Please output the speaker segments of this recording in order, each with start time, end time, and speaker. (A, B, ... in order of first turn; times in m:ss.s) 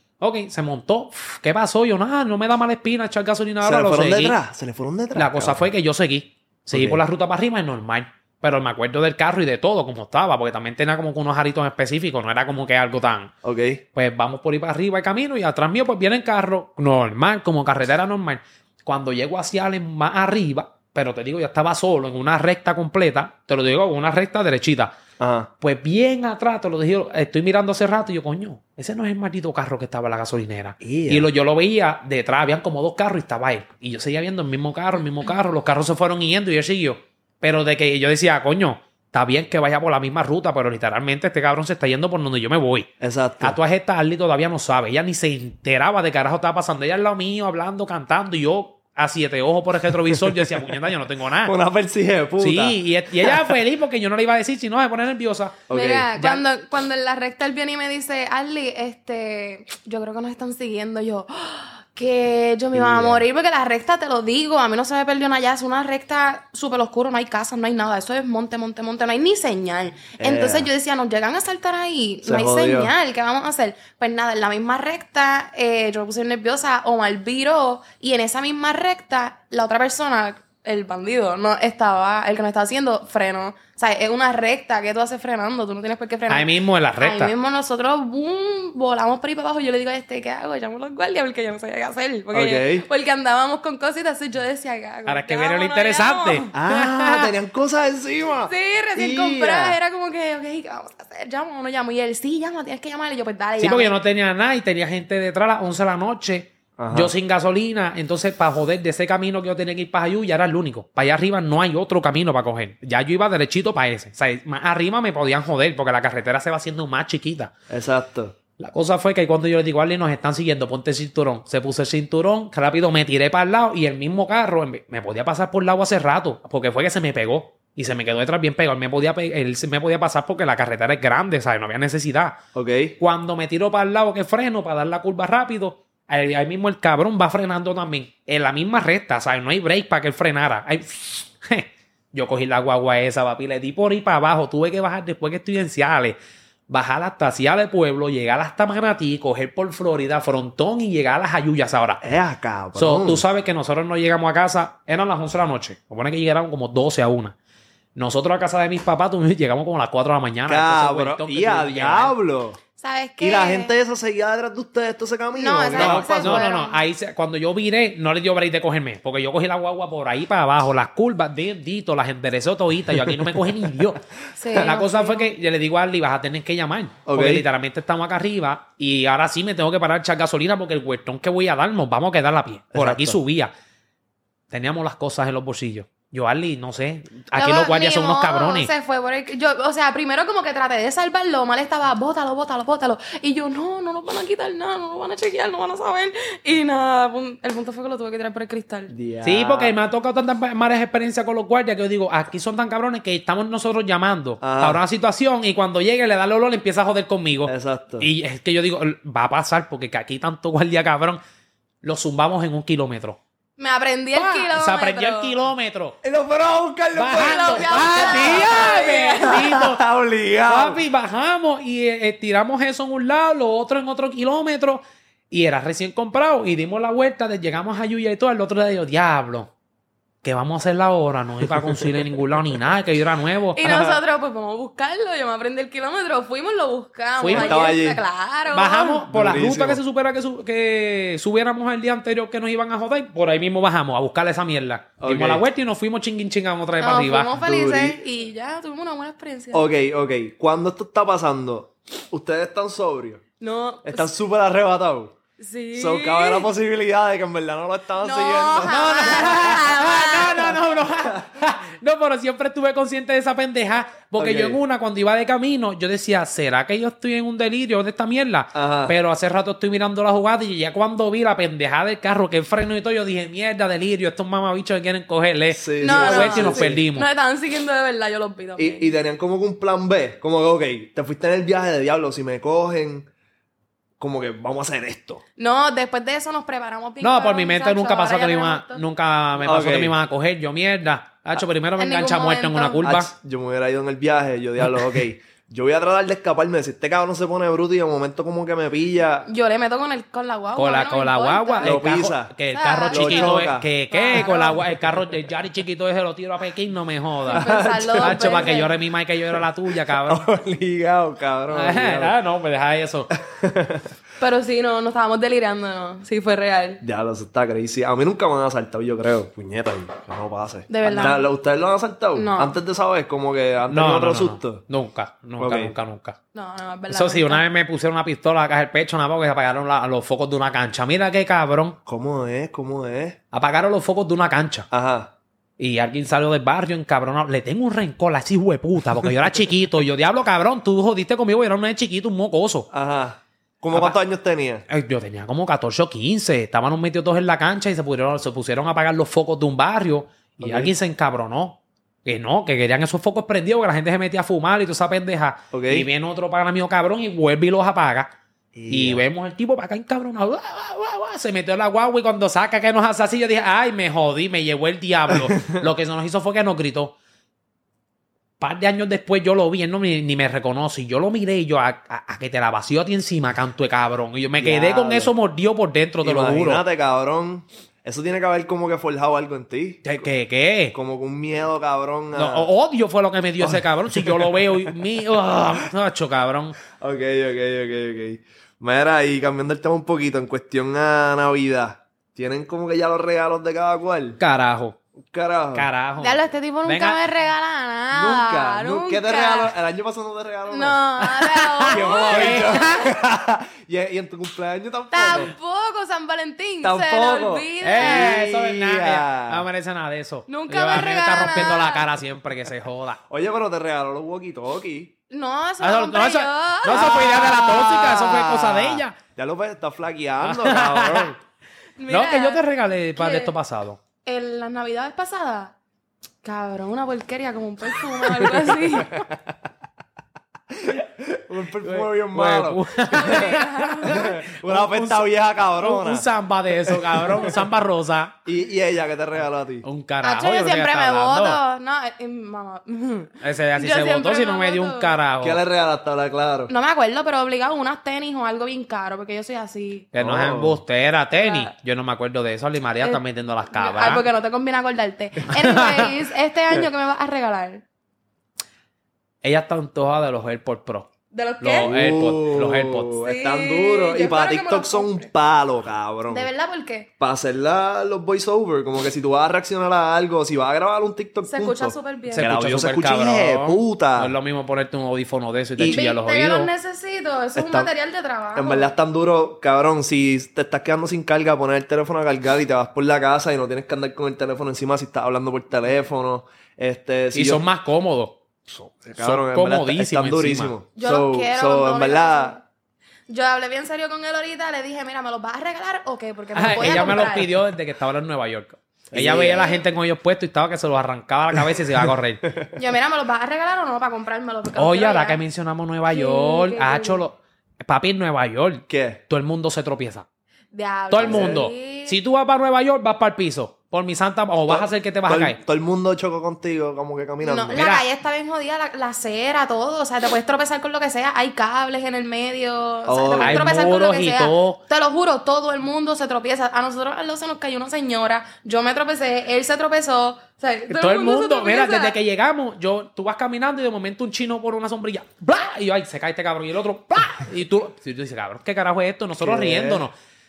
0:00.2-0:04.4 A
0:03.6-0:05.7 B
0:05.1-0:13.3 A
0:06.7-0:07.0 B
0:13.4-0:13.8 B
0:13.9-0:25.0 A
0:25.2-0:25.5 B
0:25.6-0:42.9 A
0:30.8-0:31.3 B
0:43.0-0:43.6 B
0:43.4-0:51.5 A
0:51.4-0:53.3 B
0:52.4-0:56.4 A
0:55.7-0:56.1 B
0:55.7-1:36.5 C
1:02.7-1:03.2 B
1:10.2-1:10.7 B
1:12.2-1:12.9 B
1:26.3-1:27.3 A
1:32.3-1:32.8 B
1:35.0-1:37.3 A
1:36.5-1:39.8 B
1:38.5-1:43.9 C
1:43.6-1:57.5 A
1:46.8-1:47.1 B
1:57.7-1:58.3 B
1:58.6-2:12.4 A
2:12.5-2:13.0 B
2:13.0-2:26.2 A
2:26.7-2:32.0 A
2:32.0-2:33.2 B
2:32.8-2:37.3 A
2:37.9-2:42.1 A
2:40.5-2:42.6 B
2:42.8-2:43.7 C
2:43.2-2:46.4 B
2:45.3-2:46.8 C
2:45.7-2:54.0 A
2:53.0-2:53.4 B
2:54.4-2:55.3 C
2:54.5-3:03.5 A
2:57.0-2:57.4 B
3:02.7-3:03.2 B
3:04.5-3:08.7 A
3:07.3-3:18.9 C
3:18.9-3:19.7 B
3:19.2-3:31.2 A
3:24.4-3:24.8 B
3:27.4-3:28.1 B
3:31.8-3:33.2 A
3:33.6-3:35.4 C
3:34.1-3:36.0 A
3:36.0-3:40.8 B
3:37.0-3:39.8 A
3:37.1-3:39.4 C
3:40.5-3:49.5 A
3:50.2-3:53.6 A
3:51.6-3:51.9 B
3:53.6-3:59.0 C
3:53.6-3:54.0 B
3:57.2-3:57.7 A
3:57.3-3:58.0 B
3:58.5-4:07.3 A
3:59.1-3:59.8 B
4:05.0-4:05.4 B
4:06.8-4:09.7 C
4:07.4-4:08.0 B
4:09.5-4:13.2 B
4:13.4-4:14.1 C
4:13.8-4:15.1 B
4:15.4-4:16.5 C
4:15.7-4:19.5 B
4:18.0-4:20.8 C
4:18.6-4:37.1 A
4:24.2-4:24.6 B
4:28.5-4:28.9 B
4:35.5-4:36.8 B
4:35.8-4:38.9 C
4:38.6-4:43.1 B
4:44.0-4:45.2 B
4:45.4-4:48.8 C
4:47.0-4:53.1 A
4:49.4-4:49.9 B
4:51.8-4:52.8 C
4:52.8-4:59.3 B
4:59.3-5:01.8 C
5:00.6-5:10.3 A
5:01.6-5:02.3 B
5:02.5-5:04.6 C
5:02.9-5:03.7 B
5:07.3-5:08.4 B
5:07.3-5:08.8 C
5:09.9-5:12.1 B
5:11.5-5:13.1 A
5:13.1-5:13.9 B
5:14.2-5:16.8 C
5:16.8-5:24.6 B
5:20.7-5:21.3 C
5:22.1-5:22.5 C
5:23.7-5:26.2 A
5:25.4-5:25.7 B
5:26.3-5:27.4 C
5:26.9-5:31.8 A
5:31.8-5:33.2 B
5:33.3-5:34.7 A
5:34.7-5:35.1 B
5:35.6-5:42.7 A
5:42.7-5:44.6 B
5:44.7-5:58.1 A
5:50.4-5:50.7 B
5:55.5-5:55.9 B
5:58.5-5:59.0 B
5:58.7-6:06.9 A
6:05.3-6:05.6 B
6:08.4-6:16.6 A
6:14.4-6:15.1 B
6:16.0-6:19.8 B
6:19.8-6:20.7 A
6:20.7-6:22.5 B
6:22.1-6:26.6 A
6:23.4-6:24.3 B
6:26.8-6:34.2 B
6:34.2-6:34.8 A
6:35.0-6:35.7 B
6:35.5-6:37.0 A
6:36.0-6:39.5 C
6:37.9-6:40.8 B
6:40.5-6:42.9 C
6:41.0-6:42.9 A
6:41.7-6:45.3 B
6:44.9-6:48.2 C
6:46.6-6:49.4 B
6:47.6-6:53.0 A
6:50.3-6:51.8 C
6:53.1-6:54.9 B
6:55.1-6:57.7 C
6:55.6-6:59.0 A
6:56.7-7:01.1 B
7:00.2-7:01.1 A
7:01.8-7:02.4 C
7:01.9-7:03.8 A
7:03.0-7:03.3 C
7:04.0-7:05.5 C
7:06.2-7:09.0 C
7:08.7-7:09.3 B
7:10.5-7:16.0 B
7:11.6-7:18.2 A
7:12.9-7:14.1 C
7:16.6-7:17.3 B
7:18.2-7:19.6 B
7:19.6-7:21.4 A
7:20.0-7:24.9 C
7:23.2-7:25.4 A
7:25.2-7:26.5 B
7:26.5-7:29.9 C
7:29.9-7:34.1 A
7:30.0-7:30.6 B
7:31.2-7:31.5 C
7:33.5-7:37.6 C
7:35.3-7:35.9 A
7:39.2-7:42.9 A
7:41.1-7:41.7 C
7:41.6-7:46.3 B
7:43.0-7:45.1 C
7:46.1-7:46.9 C
7:47.0-7:54.1 B
7:51.2-7:52.3 C
7:52.1-7:56.5 A
7:55.6-7:55.8 B
7:55.7-7:58.7 C
7:57.4-7:57.7 B
7:58.3-8:07.4 B
8:07.1-8:08.2 A
8:08.5-8:12.4 B
8:08.9-8:10.5 A
8:10.8-8:12.4 C
8:13.1-8:17.3 C
8:16.3-8:22.2 A
8:18.9-8:19.5 B
8:19.2-8:19.6 C
8:22.6-8:25.2 C
8:24.5-8:30.0 A
8:25.9-8:27.0 C
8:28.7-8:29.0 B
8:30.5-8:32.0 C
8:30.9-8:35.4 A
8:31.0-8:31.4 B
8:34.5-8:37.6 B
8:37.2-8:51.9 C
8:37.5-8:37.8 A
8:42.9-8:43.5 B
8:43.2-8:44.6 A
8:50.7-8:59.9 A
8:59.2-8:59.8 B